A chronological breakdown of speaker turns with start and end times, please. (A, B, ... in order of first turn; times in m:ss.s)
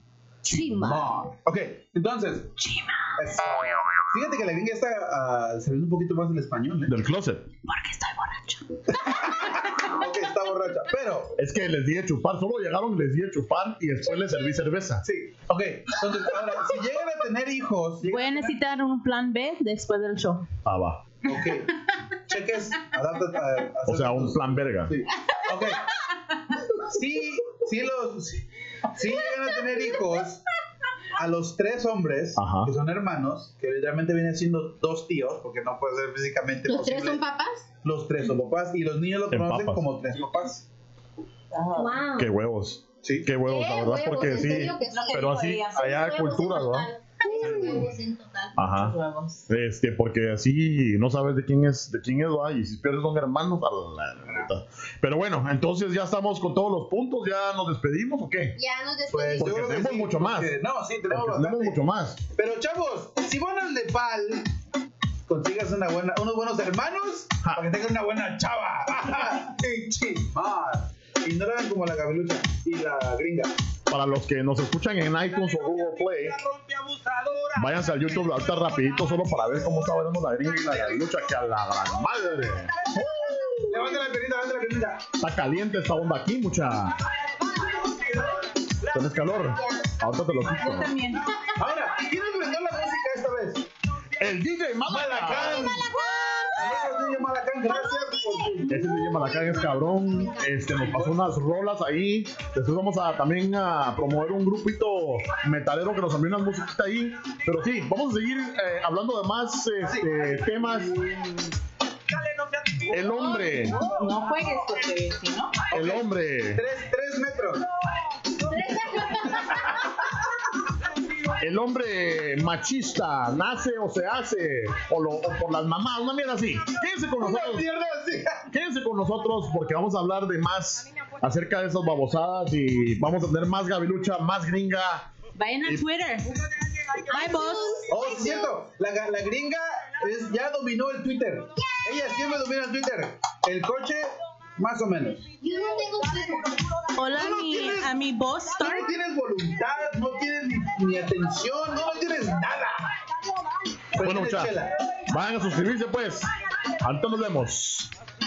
0:00.4-0:01.1 A
0:00.8-0:02.5 B
0:02.6-0:03.1 C
0:03.2-0:07.0 B
0:06.9-0:07.5 D
0:07.7-0:08.6 C
0:08.9-0:11.3 B
0:11.4-0:15.0 D
0:15.0-0:18.6 B
0:18.0-0:20.5 C
0:20.6-0:21.0 D
0:21.2-0:25.9 B
0:23.9-0:25.0 D
0:26.7-0:30.4 B
0:31.1-0:37.2 B
0:32.4-0:32.7 D
0:36.7-0:37.6 A
0:37.8-0:40.7 B
0:39.3-0:39.8 D
0:41.5-0:42.0 C
0:41.7-0:42.3 A
0:42.2-0:46.9 D
0:43.0-0:43.3 B
0:43.4-0:48.6 A
0:44.9-0:46.1 C
0:47.2-0:47.8 C
0:47.4-0:47.9 D
0:48.6-0:49.0 D
0:48.6-0:49.5 C
0:49.5-0:58.6 D
0:58.6-0:59.5 A
0:59.1-1:00.5 D
0:59.4-1:01.8 B
1:01.1-1:02.2 D
1:02.3-1:04.5 B
1:05.3-1:13.5 B
1:13.9-1:16.4 D
1:15.3-1:17.9 B
1:17.6-1:23.8 D
1:23.6-1:25.1 B
1:25.2-1:27.0 D
1:28.8-1:30.9 D
1:29.5-1:29.9 A
1:30.5-1:31.2 C
1:31.6-1:33.7 B
1:34.2-1:35.8 D
1:34.9-1:35.9 B
1:36.5-1:39.0 B
1:37.7-1:40.9 A
1:38.7-1:51.0 D
1:40.9-1:41.2 B
1:49.8-1:51.4 B
1:52.1-1:54.1 B
1:52.9-1:53.9 D
1:53.2-1:55.6 C
1:55.7-1:57.7 B
1:55.7-1:56.6 D
1:58.4-1:59.9 A
2:01.4-2:07.7 D
2:07.2-2:08.4 B
2:08.5-2:15.1 D
2:15.4-2:16.4 C
2:17.1-2:18.6 A
2:17.1-2:17.8 C
2:17.9-2:25.3 B
2:21.6-2:22.3 A
2:25.4-2:26.7 A
2:26.9-2:28.9 C
2:27.1-2:28.0 B
2:28.6-2:32.9 B
2:33.9-2:34.8 B
2:34.0-2:37.9 D